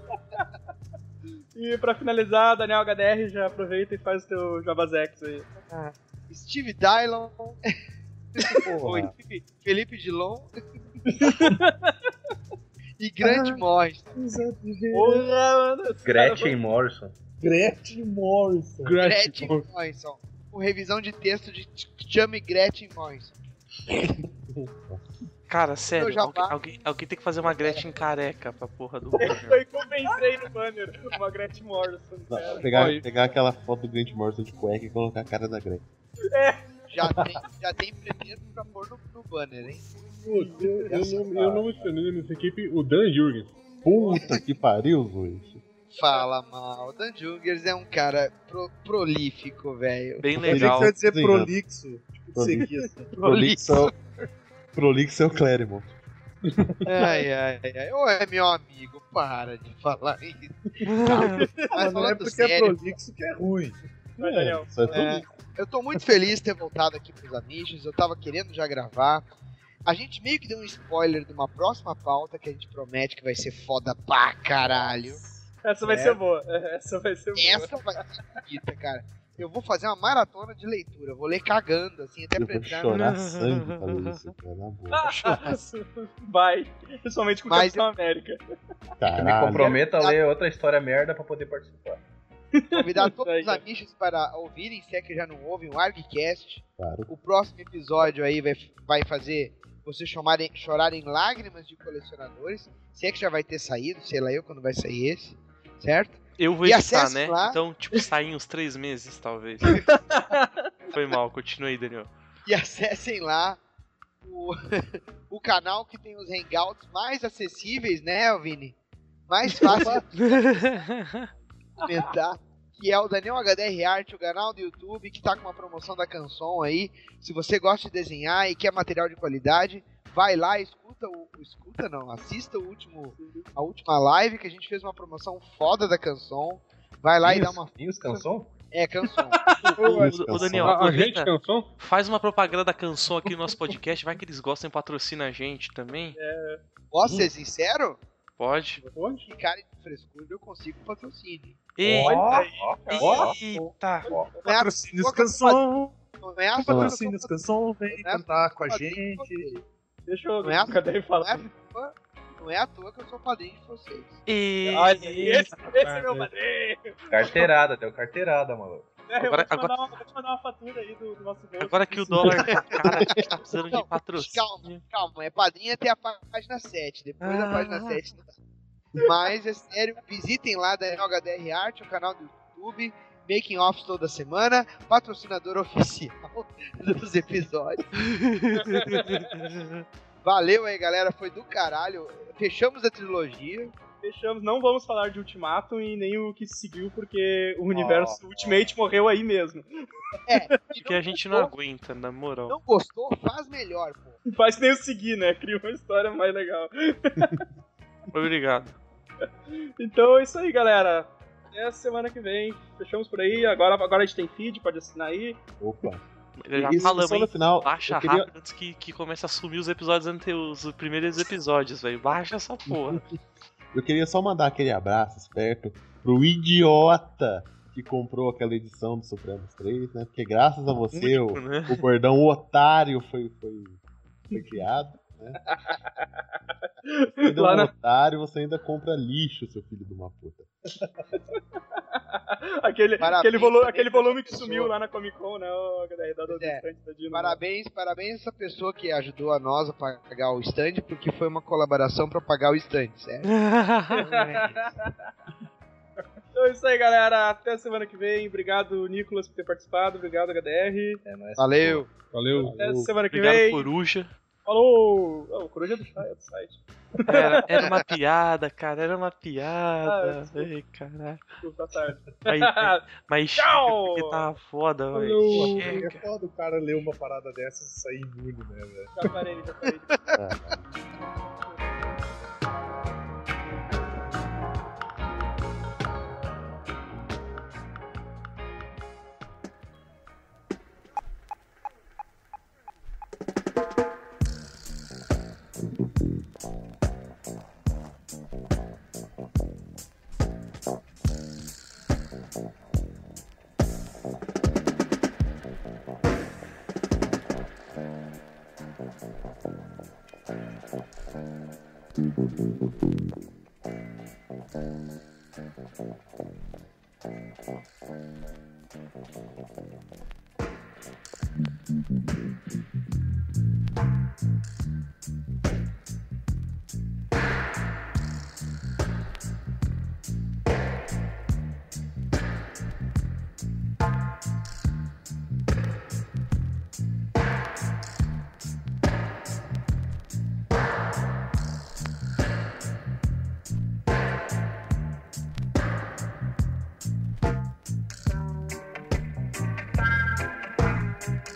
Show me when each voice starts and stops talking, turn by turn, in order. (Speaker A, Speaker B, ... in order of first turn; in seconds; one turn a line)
Speaker A: 1.5-5.5
Speaker B: 5.7-7.7
Speaker B: 8.4-10.5
Speaker C: 8.7-9.1
Speaker A: 11.2-11.9
Speaker B: 13.0-14.2
Speaker C: 13.2-13.6
Speaker C: 14.2-15.2
Speaker A: 14.9-16.6
Speaker D: 16.0-17.1
Speaker C: 17.4-19.0
Speaker E: 18.8-19.6
Speaker B: 19.0-23.4
Speaker F: 25.5-29.6
Speaker B: 25.9-26.5
Speaker B: 27.5-27.9
Speaker A: 29.2-32.7
Speaker G: 32.3-35.8
Speaker E: 32.7-33.0
Speaker A: 36.3-36.8
Speaker B: 36.9-39.8
Speaker C: 40.2-41.7
Speaker A: 40.4-40.8
Speaker E: 40.8-43.8
Speaker G: 43.8-45.6
Speaker B: 44.1-44.4
Speaker B: 45.9-50.2
Speaker F: 50.2-50.9
Speaker G: 50.4-51.5
Speaker C: 50.4-53.8
Speaker G: 52.3-53.9
Speaker B: 53.3-53.7
Speaker G: 54.7-56.0
Speaker E: 56.5-56.7
Speaker B: 56.8-62.8
Speaker F: 60.9-61.4
Speaker A: 61.4-61.7
Speaker C: 61.7-63.8
Speaker A: 64.2-65.2
Speaker G: 64.2-65.3
Speaker B: 64.9-69.2
Speaker B: 69.8-75.2
Speaker G: 74.6-75.4
Speaker A: 75.6-78.4
Speaker B: 75.8-76.2
Speaker B: 77.3-83.0
Speaker G: 82.4-85.1
Speaker F: 82.9-84.2
Speaker A: 84.9-88.4
Speaker B: 85.0-85.7
Speaker B: 87.5-87.8
Speaker G: 89.0-89.7
Speaker D: 89.2-92.0
Speaker B: 89.5-90.2
Speaker A: 92.5-93.6
Speaker B: 92.7-107.6
Speaker G: 96.8-97.1
Speaker F: 106.4-109.7
Speaker A: 109.7-110.7
Speaker F: 110.9-112.1
Speaker B: 112.5-113.6
Speaker B: 114.2-118.8
Speaker B: 119.3-120.8
Speaker C: 119.7-120.0
Speaker A: 119.7-119.9
Speaker F: 120.2-121.3
Speaker B: 121.8-139.5
Speaker A: 133.2-133.5
Speaker D: 137.2-138.5
Speaker F: 139.6-146.2
Speaker A: 139.8-140.1
Speaker G: 139.8-140.8
Speaker E: 140.6-141.7
Speaker A: 146.1-146.6
Speaker B: 146.9-148.0
Speaker F: 148.4-148.8
Speaker E: 148.9-149.2
Speaker B: 149.3-151.6
Speaker F: 151.8-154.1
Speaker C: 151.8-152.5
Speaker D: 151.9-153.4
Speaker A: 152.2-153.3
Speaker C: 153.0-153.7
Speaker A: 154.0-154.5
Speaker C: 154.4-155.9
Speaker B: 154.4-155.6
Speaker B: 156.2-157.3
Speaker C: 156.6-159.5
Speaker G: 156.7-156.9
Speaker B: 157.9-159.6
Speaker A: 160.1-161.5
Speaker B: 160.4-164.2
Speaker F: 164.3-166.0
Speaker A: 164.7-167.5
Speaker D: 167.1-168.9
Speaker A: 169.1-172.8
Speaker F: 169.2-169.7
Speaker F: 171.6-174.8
Speaker B: 172.3-178.3
Speaker F: 177.2-178.0
Speaker B: 179.0-187.9
Speaker F: 188.4-189.8
Speaker A: 188.6-189.2
Speaker B: 190.2-193.7
Speaker A: 194.0-199.7
Speaker C: 197.7-198.6
Speaker B: 200.3-201.5
Speaker F: 200.8-202.6
Speaker B: 202.5-204.2
Speaker A: 204.2-207.4
Speaker F: 208.1-208.8
Speaker A: 209.8-215.4
Speaker G: 215.6-216.0
Speaker F: 216.4-223.0
Speaker G: 216.5-218.3
Speaker G: 223.7-235.4
Speaker F: 230.9-231.8
Speaker A: 234.3-234.6
Speaker A: 235.5-236.0
Speaker A: 236.8-237.7
Speaker G: 237.2-240.5
Speaker A: 241.1-241.4
Speaker A: 241.9-247.4
Speaker B: 243.0-244.7
Speaker B: 246.3-253.3
Speaker F: 253.2-254.0
Speaker A: 253.9-254.9
Speaker B: 254.0-254.7
Speaker A: 256.3-261.0
Speaker D: 261.0-261.9
Speaker B: 261.4-261.9
Speaker E: 262.1-262.6
Speaker G: 262.4-262.9
Speaker A: 262.5-263.7
Speaker F: 263.1-264.1
Speaker A: 264.4-267.7
Speaker F: 267.1-271.3
Speaker A: 269.8-270.5
Speaker A: 271.4-272.8
Speaker F: 272.2-276.0
Speaker A: 273.4-274.2
Speaker E: 274.9-275.8
Speaker C: 275.3-278.9
Speaker A: 278.9-280.0
Speaker G: 280.1-280.6